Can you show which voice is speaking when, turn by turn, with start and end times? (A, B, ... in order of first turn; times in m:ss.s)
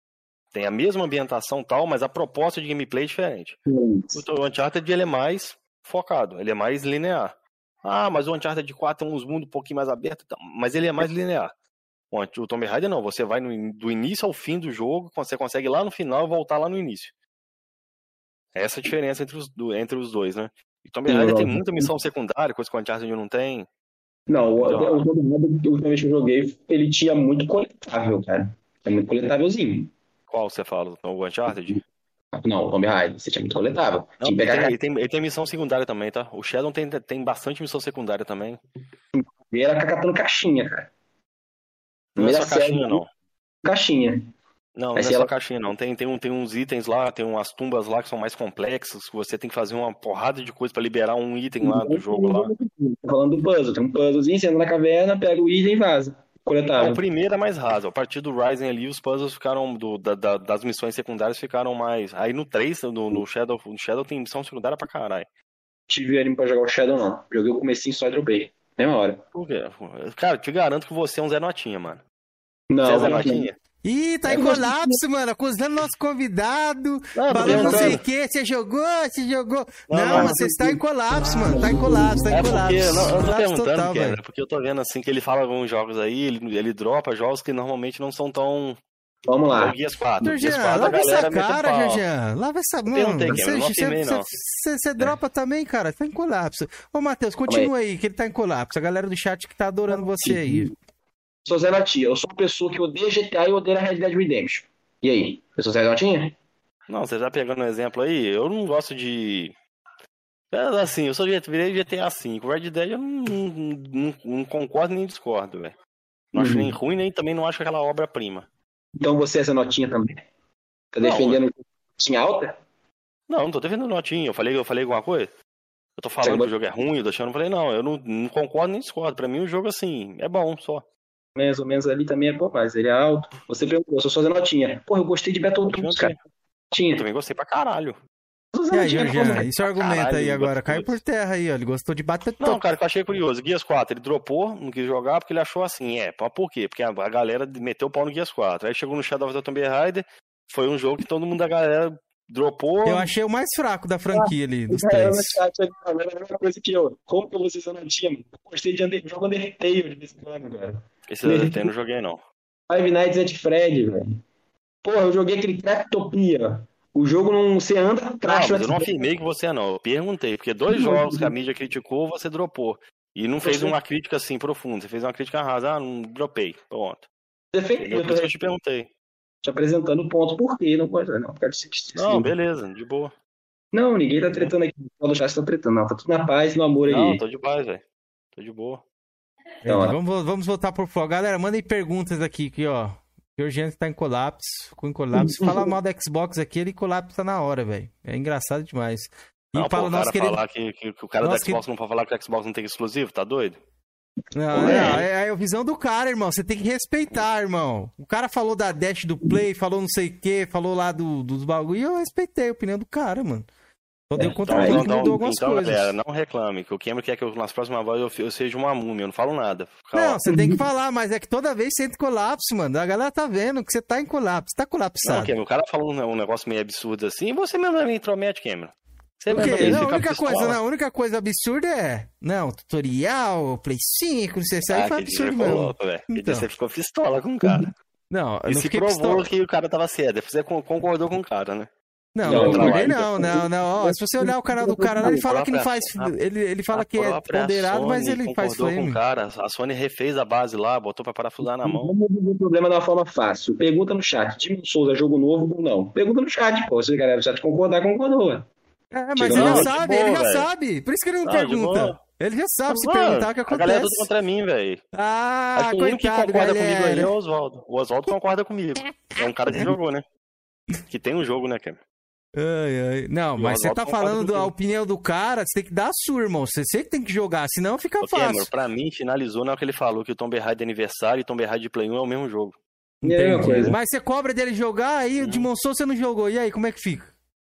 0:00.5-0:03.6 A
0:03.7-0:04.2 B
0:04.1-0:07.3 A
0:07.8-0:11.5 A
0:12.1-0:17.1 A
0:18.6-0:23.7 A
0:21.1-0:21.9 B
0:24.3-0:29.9 B
0:24.6-0:25.0 A
0:30.3-0:31.8 A
0:32.3-0:34.8 B
0:34.2-0:38.6 A
0:39.1-0:40.9 B
0:42.2-0:43.0 B
0:42.2-0:43.1 A
0:43.6-0:44.3 B
0:44.8-0:52.5 A
0:45.0-0:45.3 B
0:51.6-0:57.0 B
0:56.8-1:05.3 A
1:05.9-1:09.2 B
1:09.3-1:12.0 A
1:12.7-1:13.5 B
1:12.8-1:13.6 A
1:13.8-1:24.2 C
1:14.3-1:15.0 B
1:17.2-1:18.0 A
1:17.3-1:18.0 B
1:19.9-1:20.6 A
1:20.1-1:20.8 B
1:21.4-1:23.0 B
1:22.3-1:28.8 A
1:29.3-1:29.8 B
1:29.5-1:32.0 A
1:30.2-1:40.7 C
1:32.9-1:34.3 A
1:39.9-1:40.7 B
1:41.5-1:46.4 B
1:46.9-1:49.6 A
1:50.5-1:55.8 A
1:56.3-1:58.5 A
1:56.4-1:56.7 B
1:59.0-2:00.2 B
2:00.9-2:02.6 B
2:01.0-2:01.4 A
2:03.3-2:05.3 A
2:06.0-2:10.8 A
2:06.2-2:06.5 B
2:11.4-2:16.2 B
2:15.7-2:16.2 A
2:16.7-2:17.0 B
2:16.9-2:18.0 A
2:18.5-2:19.5 B
2:18.7-2:22.6 C
2:19.6-2:21.0 A
2:22.4-2:33.1 A
2:32.9-2:35.4 C
2:34.1-2:41.7 B
2:41.1-2:42.2 A
2:42.7-2:44.2 B
2:44.8-2:48.9 B
2:48.2-2:57.1 A
2:50.7-2:51.3 B
2:53.4-2:53.8 B
2:57.5-2:58.4 B
2:57.8-2:58.9 A
2:59.4-3:02.3 B
3:02.0-3:03.1 A
3:03.7-3:07.2 B
3:06.9-3:07.8 A
3:08.3-3:08.8 A
3:09.6-3:20.4 C
3:09.7-3:10.0 B
3:15.1-3:15.7 B
3:19.6-3:23.6 A
3:21.2-3:21.6 C
3:24.4-3:33.5 C
3:24.5-3:25.0 B
3:34.1-3:36.0 C
3:34.2-3:35.2 B
3:34.4-3:40.2 A
3:39.9-3:45.3 C
3:40.3-3:40.6 B
3:45.1-3:50.6 A
3:49.3-3:56.5 C
3:49.3-3:49.9 B
3:54.7-3:57.7 A
3:58.1-3:59.3 C
3:58.5-4:01.7 A
4:02.2-4:09.0 C
4:02.2-4:03.4 A
4:02.2-4:05.2 B
4:05.0-4:06.2 A
4:06.7-4:11.9 A
4:11.4-4:18.5 B
4:18.9-4:24.1 C
4:19.2-4:19.7 B
4:19.3-4:20.5 A
4:21.2-4:22.0 A
4:22.7-4:24.8 A
4:24.9-4:27.1 C
4:25.6-4:30.0 A
4:30.9-4:31.8 A
4:32.4-4:38.5 C
4:33.4-4:34.5 A
4:38.0-4:42.6 A
4:43.0-4:47.1 C
4:43.0-4:43.8 B
4:45.2-4:45.5 A